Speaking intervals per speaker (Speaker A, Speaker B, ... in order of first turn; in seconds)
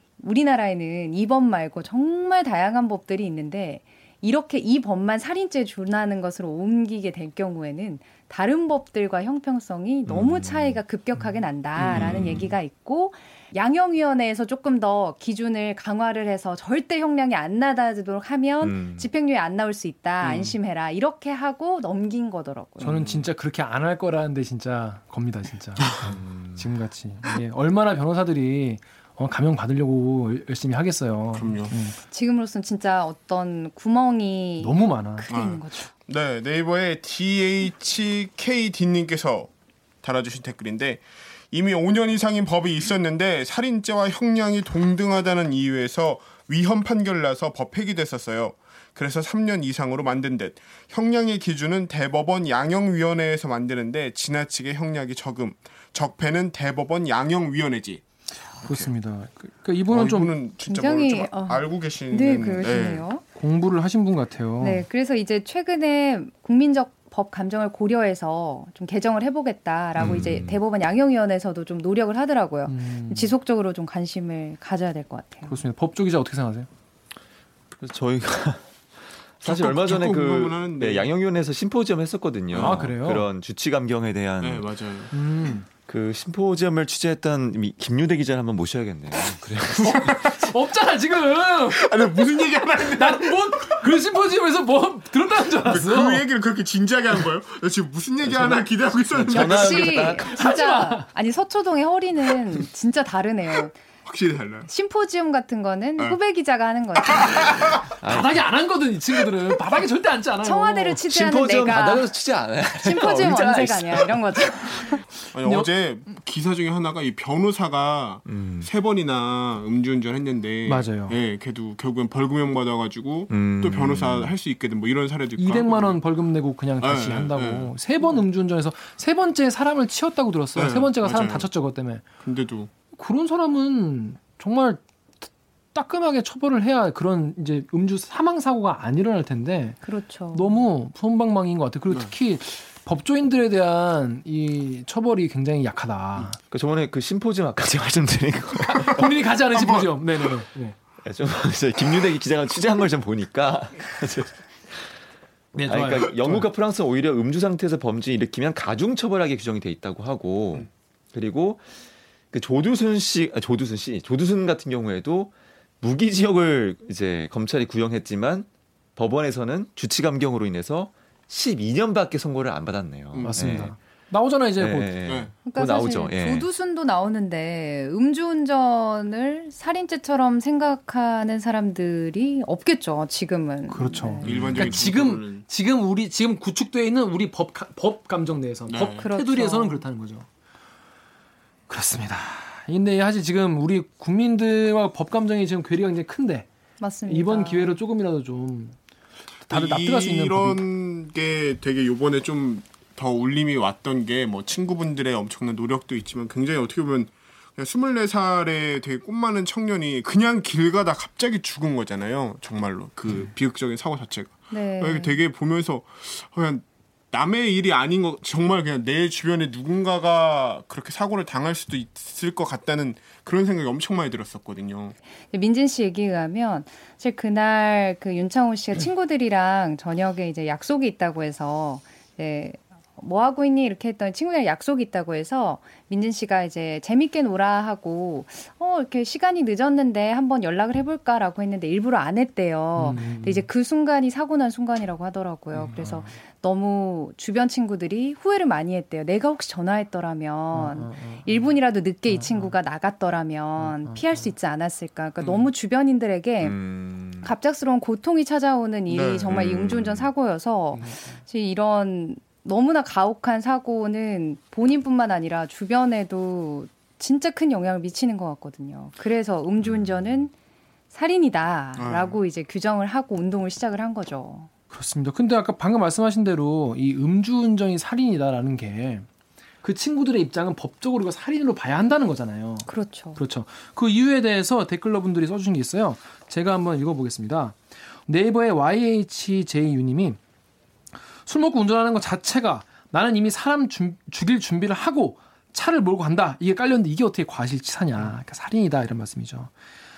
Speaker A: 0.2-23.0, 32.1-35.9, 60.6-63.2, 64.6-75.6, 99.3-103.8, 104.7-107.5, 110.4-112.1, 112.8-115.0, 139.8-140.6, 175.4-184.3, 189.0-189.8, 196.8-197.8, 214.5-215.2, 225.3-256.6, 257.2-270.3, 270.9-274.5, 282.7-283.2
Speaker B: 10.1-10.8, 11.8-12.6, 18.6-19.1, 26.0-26.7, 70.0-70.6, 77.8-78.6, 79.4-84.7, 85.9-90.3, 98.2-98.6, 99.2-100.5, 108.0-108.4, 111.1-114.2, 118.3-118.7, 123.3-124.3, 146.5-149.1, 151.0-154.9, 155.7-161.6, 162.3-173.7, 174.6-176.5, 256.4-257.3, 259.3-260.0, 269.6-270.1
Speaker C: 20.2-20.6, 31.3-31.7, 35.3-39.5, 40.0-58.0, 58.6-58.9, 59.9-63.0, 79.4-81.1, 82.5-82.9, 84.4-85.1, 90.0-90.4, 91.7-94.0, 95.6-100.1, 104.0-104.7, 107.2-107.7, 115.3-126.0, 126.8-127.7, 130.6-131.5, 132.2-132.7, 149.5-149.9, 173.1-173.6, 175.1-175.3, 184.2-185.4, 188.7-189.1, 199.5-225.0, 258.9-259.8, 271.8-272.2
Speaker D: 22.8-32.0, 34.6-35.3, 58.6-60.4, 63.4-64.8, 72.7-73.3, 75.5-76.7, 82.6-83.2, 85.1-85.7, 89.8-92.3, 92.8-96.2, 100.2-101.1, 107.9-111.0, 115.4-115.7, 120.7-121.2, 125.4-132.1, 133.0-139.8, 140.3-146.4, 148.8-150.8, 155.5-156.5, 173.2-175.0, 183.7-190.3, 191.7-196.5, 197.1-198.8, 199.5-200.6, 242.8-243.5, 245.5-246.1, 250.5-251.4, 252.1-252.5, 253.6-254.2, 260.8-261.2, 274.7-279.1, 279.6-290.2, 291.3-299.5